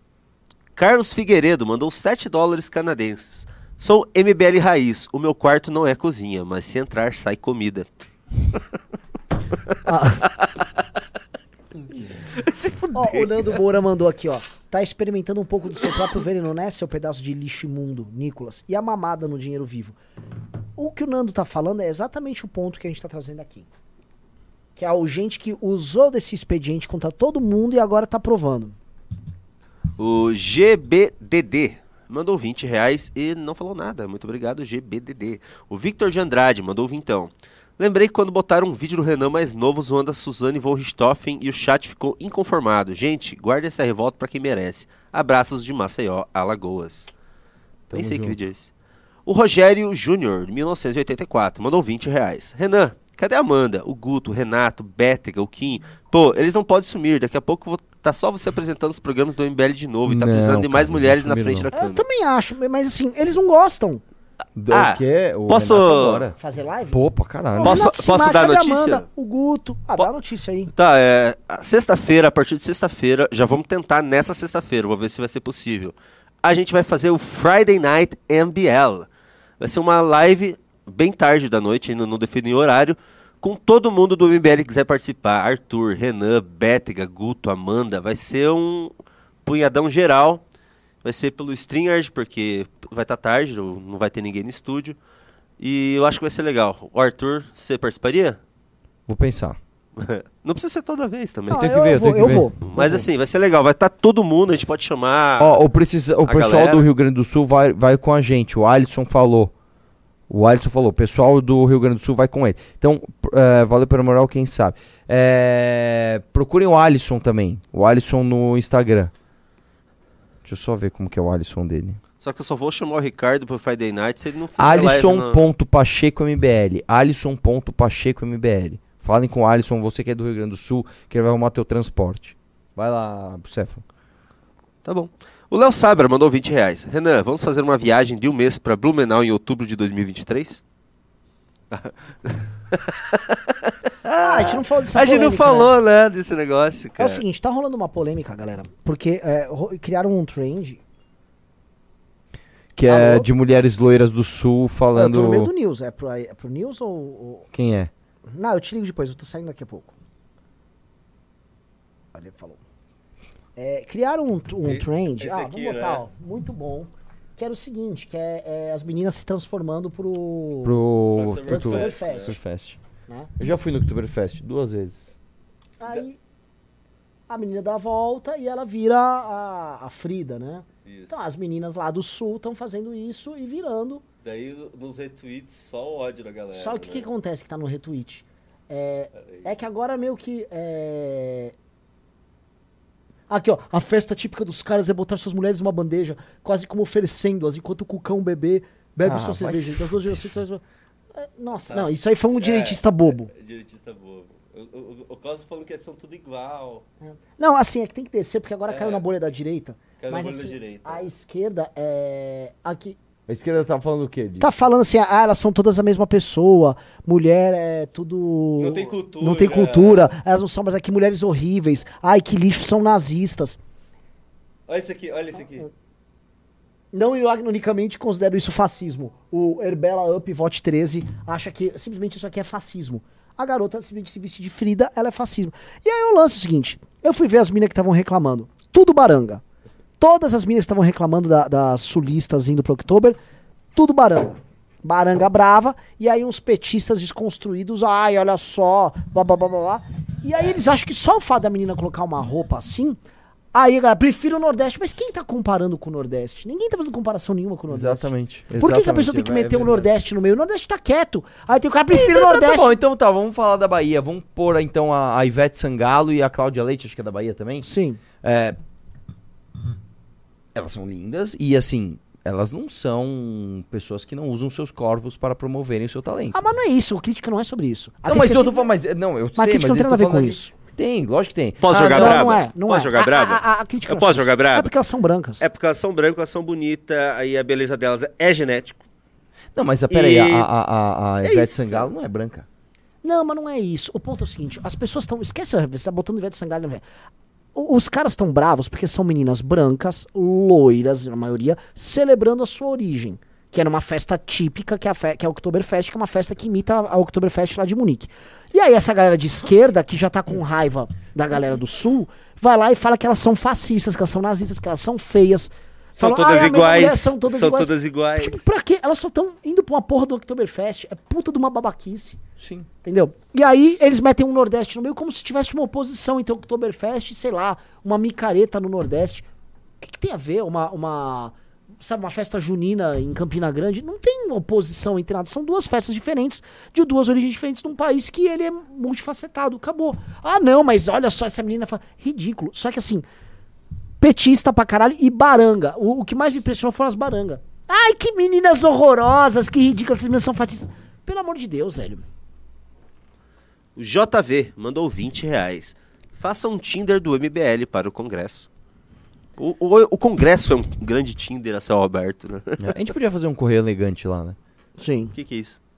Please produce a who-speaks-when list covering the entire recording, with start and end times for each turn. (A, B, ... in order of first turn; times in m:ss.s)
0:00.8-0:07.9 A
0:09.9-0:10.2 B
0:10.2-0:10.5 A
0:12.3-0:13.5 A
0:12.9-0:20.0 B
0:20.8-0:23.7 B
0:24.8-0:28.8 B
0:30.0-0:47.1 A
0:47.9-0:48.4 C
0:47.9-0:48.7 A
0:49.3-1:02.0 A
1:00.1-1:01.7 C
1:01.7-1:04.0 B
1:04.6-1:06.4 C
1:04.7-1:06.3 A
1:06.4-1:07.0 B
1:06.9-1:07.8 C
1:07.5-1:10.7 B
1:07.6-1:09.0 A
1:10.7-1:19.1 A
1:19.6-1:28.9 A
1:29.4-1:30.4 A
1:31.0-1:35.0 A
1:35.6-1:38.4 A
1:39.1-1:39.6 C
1:40.0-1:41.6 A
1:41.5-1:43.1 B
1:41.5-1:42.5 C
1:42.7-1:45.6 A
1:45.4-1:49.5 C
1:46.3-1:46.8 A
1:50.3-1:59.1 C
2:00.4-2:02.0 C
2:02.2-2:05.4 A
2:04.6-2:13.8 C
2:14.8-2:20.6 A
2:21.7-2:27.2 A
2:24.2-2:25.7 B
2:27.0-2:30.8 B
2:32.8-2:35.5 C
2:32.9-2:33.3 B
2:35.0-2:37.5 B
2:37.5-2:37.9 C
2:38.3-2:39.9 B
2:42.1-2:42.6 B
2:43.6-2:50.8 B
2:44.6-2:46.0 A
2:50.6-2:52.8 C
2:51.1-2:52.4 A
2:51.4-2:52.4 B
2:53.4-2:55.2 C
2:55.8-2:56.2 B
2:57.3-3:04.0 B
3:00.9-3:01.2 A
3:04.2-3:07.1 A
3:06.5-3:11.5 B
3:13.3-3:20.6 B
3:19.0-3:20.3 C
3:21.2-3:23.3 B
3:21.7-3:26.8 A
3:27.0-3:33.0 B
3:28.7-3:29.0 A
3:30.0-3:31.1 A
3:33.3-3:34.5 C
3:34.4-3:43.6 B
3:38.6-3:40.1 A
3:44.7-3:45.7 A
3:46.9-3:59.4 B
4:00.0-4:03.2 B
4:03.8-4:13.0 B
4:13.5-4:22.8 B
4:17.7-4:19.9 C
4:21.9-4:27.7 C
4:27.6-4:28.0 B
4:28.2-4:28.6 C
4:30.5-4:36.4 C
4:36.3-4:38.7 B
4:38.1-4:42.3 C
4:39.4-4:40.5 B
4:41.6-4:44.7 A
4:41.9-4:45.4 B
4:45.4-4:48.8 A
4:49.6-4:52.5 C
4:49.9-4:50.5 A
4:51.2-4:51.9 A
4:53.0-4:56.8 B
4:57.6-5:22.2 B
5:16.0-5:18.4 A
5:22.4-5:22.7 C
5:22.8-5:29.3 B
5:29.8-5:43.0 B
5:44.0-5:52.0 B
5:53.8-5:58.5 A
5:59.4-6:02.7 A
6:02.6-6:04.4 C
6:04.8-6:05.2 B
6:05.2-6:05.6 A